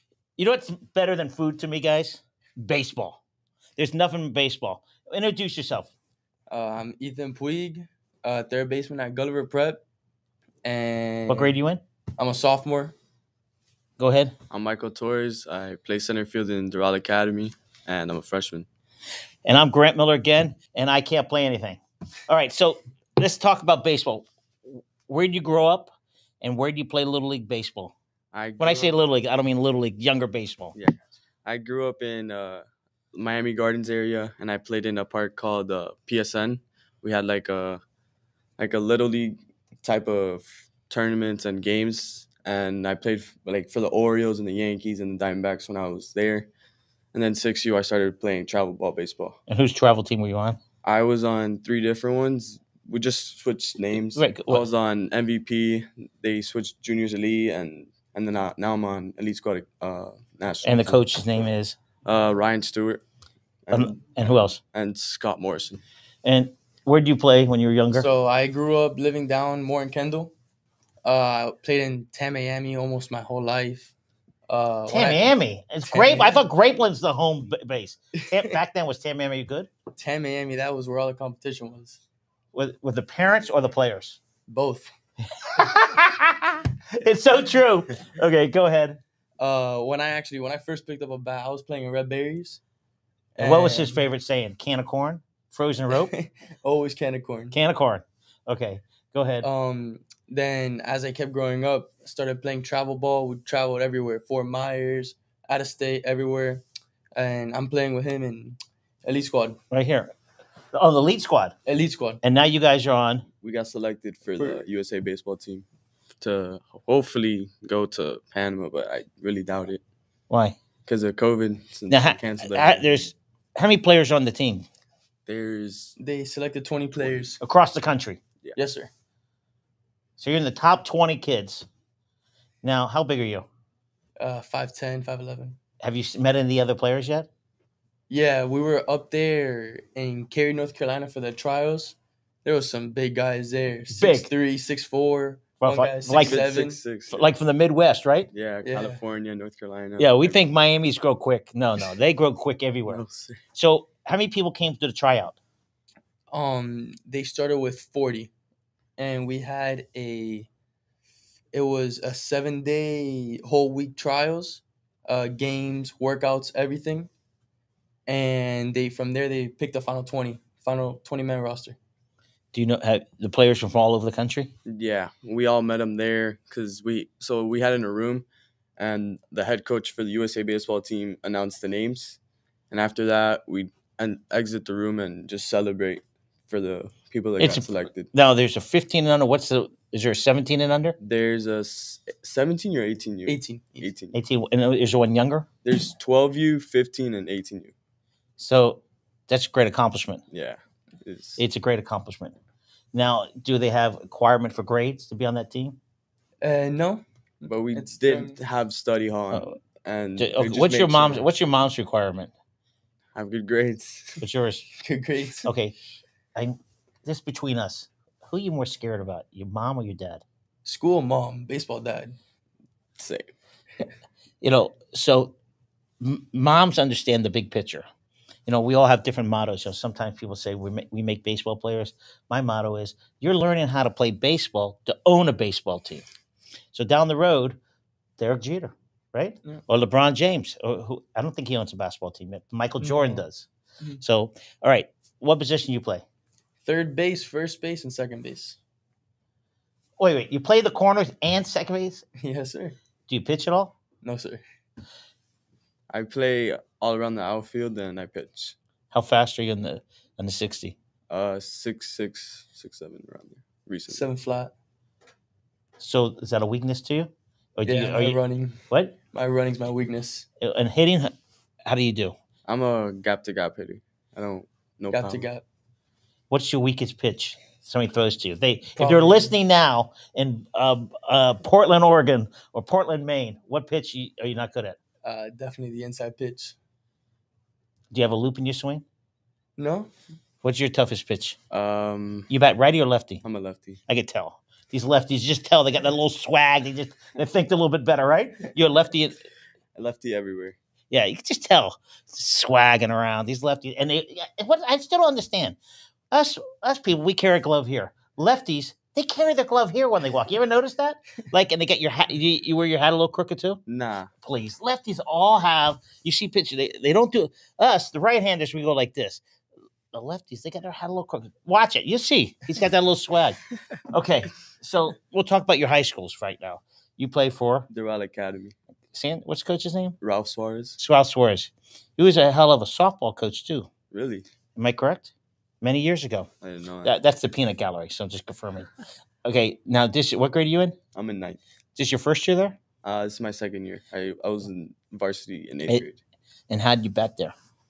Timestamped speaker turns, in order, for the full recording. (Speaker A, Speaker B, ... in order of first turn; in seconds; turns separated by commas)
Speaker A: 0.4-3.2, Speaker A: 3.8-5.9, Speaker B: 6.5-9.8, Speaker B: 10.6-11.5, Speaker A: 11.3-11.8, Speaker B: 12.2-12.9, Speaker A: 14.0-14.3, Speaker C: 14.5-18.7, Speaker A: 19.5-27.9, Speaker C: 28.3-29.0, Speaker A: 28.6-30.8, Speaker C: 30.8-37.8, Speaker C: 38.6-46.5, Speaker C: 47.1-49.4, Speaker A: 49.5-50.6, Speaker C: 50.8-61.5, Speaker A: 54.1-54.6, Speaker A: 60.6-61.8, Speaker C: 62.0-63.0, Speaker C: 63.7-65.8, Speaker A: 63.7-64.6, Speaker A: 66.2-68.1, Speaker B: 67.9-70.3, Speaker B: 71.0-73.9, Speaker B: 74.5-75.3, Speaker A: 74.9-79.7, Speaker B: 75.9-76.4, Speaker B: 78.1-78.6, Speaker B: 80.0-82.0, Speaker A: 82.5-84.2, Speaker B: 84.5-84.9, Speaker A: 85.4-89.0, Speaker B: 89.4-92.6, Speaker B: 93.3-94.0, Speaker A: 93.4-96.1, Speaker B: 95.9-97.6, Speaker A: 97.5-99.5, Speaker B: 99.4-106.6, Speaker B: 107.2-109.6, Speaker A: 109.7-110.1, Speaker A: 110.7-111.5, Speaker B: 111.7-112.2, Speaker A: 112.2-113.3, Speaker C: 113.4-115.7, Speaker C: 116.2-119.8, Speaker A: 120.3-120.6, Speaker C: 120.8-123.0, Speaker A: 121.9-124.7, Speaker C: 125.3-126.0, Speaker B: 126.0-127.4, Speaker A: 127.4-128.2, Speaker B: 128.6-128.9, Speaker A: 130.2-131.7, Speaker A: 132.6-133.5, Speaker B: 134.2-135.6, Speaker A: 135.8-137.3, Speaker B: 138.1-146.8, Speaker A: 143.9-144.3, Speaker A: 145.6-146.4, Speaker C: 146.1-147.3, Speaker A: 147.1-148.3, Speaker C: 148.3-150.4, Speaker B: 148.6-149.0, Speaker A: 150.0-153.0, Speaker C: 152.9-153.4, Speaker A: 153.5-155.4, Speaker B: 156.3-158.3, Speaker B: 159.0-160.5, Speaker B: 161.5-167.1, Speaker B: 168.1-171.8, Speaker A: 172.5-174.5, Speaker C: 174.7-178.3, Speaker C: 178.8-182.2, Speaker C: 182.7-188.1, Speaker A: 187.4-191.0, Speaker C: 191.0-194.2, Speaker B: 193.3-193.9, Speaker A: 194.1-195.5, Speaker C: 195.6-197.7, Speaker A: 198.4-200.2, Speaker C: 200.3-201.4, Speaker A: 201.4-202.4, Speaker A: 202.9-205.8, Speaker B: 206.4-208.4, Speaker C: 207.5-211.3, Speaker A: 210.2-212.3, Speaker C: 213.2-214.2, Speaker A: 214.2-214.7, Speaker B: 214.8-215.5, Speaker A: 215.4-215.8, Speaker A: 216.3-220.2, Speaker B: 220.7-222.2, Speaker C: 223.0-223.3, Speaker A: 224.4-225.3, Speaker A: 226.0-227.9, Speaker A: 228.5-236.0, Speaker A: 236.7-237.6, Speaker A: 238.2-243.5, Speaker B: 242.8-243.2, Speaker A: 244.0-246.0, Speaker B: 246.7-248.6, Speaker A: 250.0-252.0, Speaker B: 252.2-252.8, Speaker A: 253.1-253.7, Speaker B: 254.0-254.4, Speaker C: 255.9-258.6, Speaker A: 258.9-260.8, Speaker C: 261.1-264.1, Speaker B: 263.9-264.5, Speaker A: 265.8-268.2, Speaker B: 267.7-268.6, Speaker A: 268.7-268.9, Speaker B: 269.1-270.3, Speaker A: 270.4-271.1, Speaker A: 271.7-272.1, Speaker C: 272.5-275.2, Speaker B: 274.9-275.4, Speaker A: 276.3-284.8, Speaker B: 278.8-279.3, Speaker B: 285.0-286.6, Speaker A: 287.9-288.9, Speaker B: 289.6-289.9, Speaker A: 290.4-291.4, Speaker C: 291.5-292.3, Speaker A: 292.3-293.2, Speaker C: 293.2-293.8, Speaker A: 293.9-299.2, Speaker C: 299.8-300.6, Speaker A: 300.9-305.6, Speaker A: 306.1-313.6, Speaker C: 313.7-314.1, Speaker A: 314.2-319.2, Speaker A: 319.9-323.4, Speaker A: 323.9-327.7, Speaker C: 327.7-328.6, Speaker A: 328.9-330.0, Speaker C: 330.0-330.8, Speaker A: 330.8-333.7, Speaker C: 333.9-334.3, Speaker A: 334.6-336.3, Speaker C: 336.4-336.9, Speaker A: 336.9-338.7, Speaker A: 339.2-340.8, Speaker C: 340.9-341.4, Speaker A: 341.8-342.6, Speaker C: 342.8-346.0, Speaker A: 346.5-347.3